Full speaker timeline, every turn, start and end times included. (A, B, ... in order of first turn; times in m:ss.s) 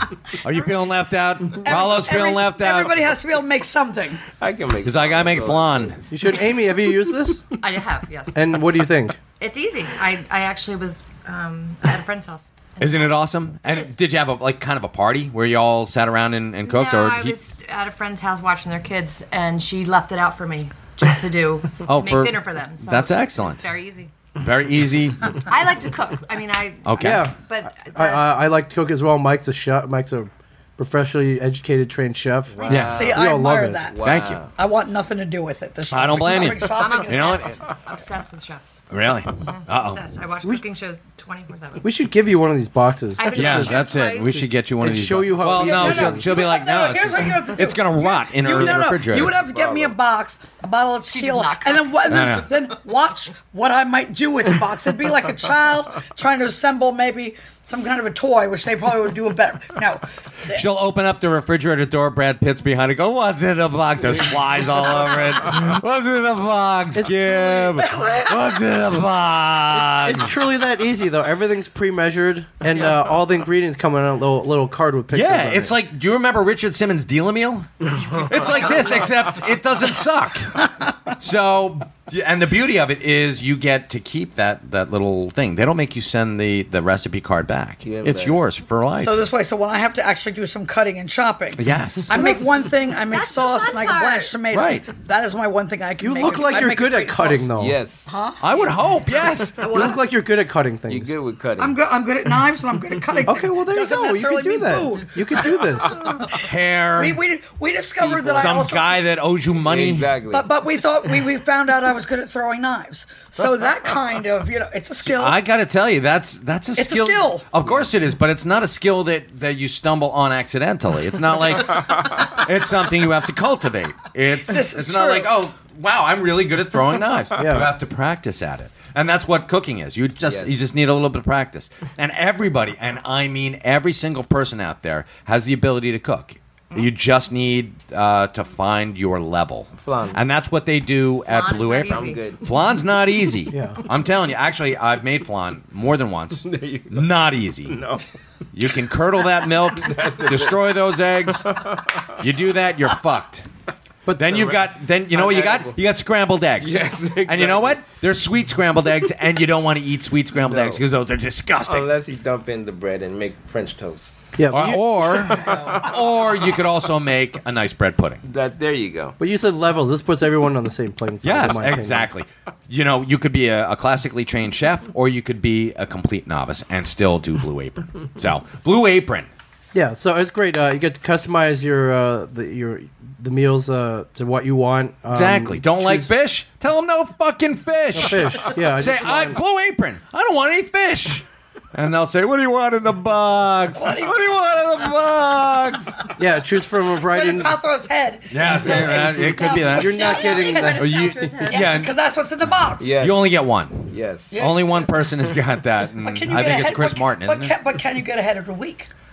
0:00.4-0:03.0 A
0:01.6-0:04.2 B
0:04.4-0:06.0 C
0:04.8-0:06.0 A
0:06.1-0:07.4 D
0:07.6-0:08.6 E
0:08.4-0:09.2 D
0:09.4-0:13.1 E
0:12.8-0:17.4 A
0:13.6-0:14.0 E
0:16.6-0:24.1 E
0:21.8-0:23.6 A
0:24.4-0:25.4 A
0:25.5-0:28.3 E
0:26.8-0:27.3 A
0:27.0-0:33.9 D
0:32.5-0:33.2 C
0:32.7-0:33.1 A
0:32.8-0:37.7 B
0:33.9-0:34.5 C
0:34.0-0:34.4 A
0:35.9-0:37.5 A
0:36.8-0:38.8 E
0:38.9-0:40.0 A
0:39.4-0:41.9 E
0:41.8-0:43.8 D
0:43.2-0:44.5 E
0:43.3-0:49.4 A
0:44.8-0:46.3 D
0:45.5-1:00.6 B
0:48.6-0:50.0 C
0:51.1-0:52.1 E
0:52.1-0:52.5 A
1:00.5-1:10.3 A
1:07.0-1:07.3 D
1:07.5-1:08.6 B
1:09.9-1:15.8 D
1:15.1-1:20.5 A
1:21.2-1:29.2 A
1:27.8-1:28.4 C
1:29.0-1:37.5 B
1:31.6-1:32.4 A
1:33.0-1:34.4 E
1:34.5-1:34.9 A
1:36.0-1:37.8 D
1:37.6-1:38.1 C
1:38.1-1:38.7 B
1:38.4-1:39.6 A
1:39.6-1:40.0 B
1:39.6-1:41.1 D
1:40.9-1:41.8 C
1:41.6-1:49.0 B
1:43.2-1:46.0 D
1:46.4-1:47.2 A
1:48.0-1:48.6 C
1:48.4-1:50.1 A
1:49.6-1:50.5 C
1:50.3-1:55.4 B
1:55.0-2:27.8 A
1:56.8-1:57.5 B
2:04.4-2:05.3 B
2:07.4-2:07.7 D
2:10.2-2:10.6 C
2:19.8-2:20.2 C
2:21.2-2:22.4 E
2:21.9-2:22.4 C
2:23.5-2:23.8 D
2:26.4-2:27.1 C
2:27.7-2:28.0 C
2:28.5-2:33.5 A
2:29.7-2:30.7 C
2:31.5-2:32.1 C
2:34.2-2:41.9 A
2:34.2-2:35.8 C
2:36.6-2:37.8 C
2:40.5-2:40.8 C
2:41.6-2:44.2 C
2:44.4-2:44.8 D
2:44.5-2:48.2 A
2:45.1-2:45.9 C
2:48.2-2:49.2 C
2:49.2-2:52.1 D
2:51.2-2:59.3 A
2:59.7-3:06.1 D
3:05.1-3:16.0 A
3:07.9-3:09.4 D
3:13.8-3:14.2 B
3:16.1-3:17.5 D
3:17.0-3:23.0 B
3:18.3-3:20.2 A
3:19.7-3:21.4 D
3:20.0-3:21.8 E
3:20.8-3:21.9 A
3:22.8-3:23.3 C
3:23.0-3:27.5 A
3:23.9-3:24.4 C
3:24.3-3:24.9 B
3:26.0-3:28.9 B